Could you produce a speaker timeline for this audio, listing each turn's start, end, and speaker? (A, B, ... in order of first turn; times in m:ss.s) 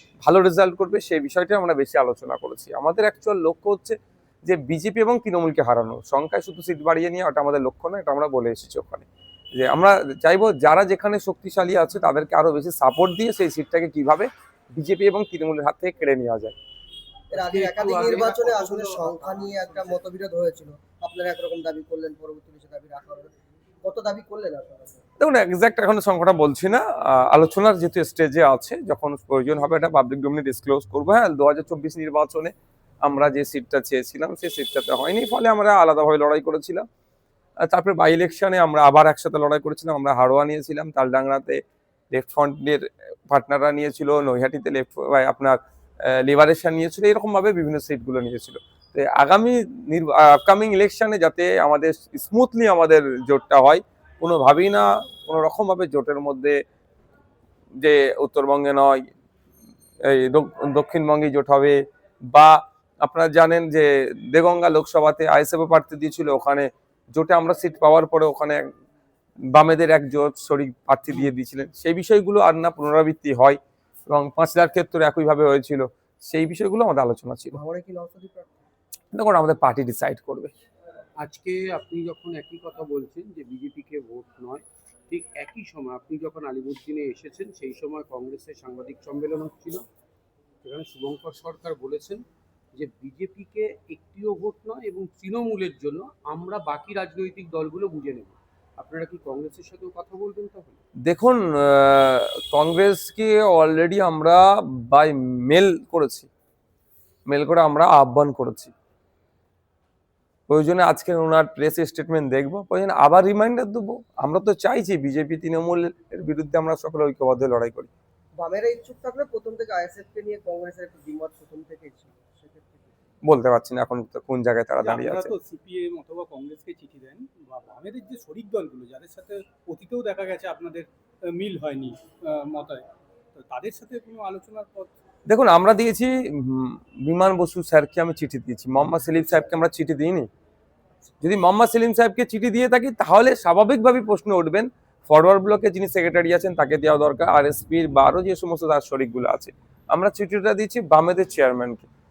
0:00.2-0:16.5 A
0:17.3-0:23.3 B
0:17.3-0:19.9 C
0:23.8-0:25.0 B
0:25.2-0:36.8 A
0:37.6-0:41.6 A
0:42.1-0:56.6 A
0:57.8-0:59.0 A
1:00.0-1:01.8 A
1:02.3-1:08.6 A
1:09.5-1:17.6 A
1:17.5-1:18.6 B
1:19.1-1:20.5 A
1:21.2-1:29.8 C
1:30.6-1:32.2 C
1:32.8-1:40.8 C
1:41.0-1:46.3 A
1:47.3-1:48.7 A
1:50.5-1:57.9 A
1:58.3-2:02.9 B
2:03.2-2:05.3 A
2:04.8-2:12.8 D
2:13.3-2:14.9 D
2:15.3-2:20.3 A
2:21.2-2:31.9 A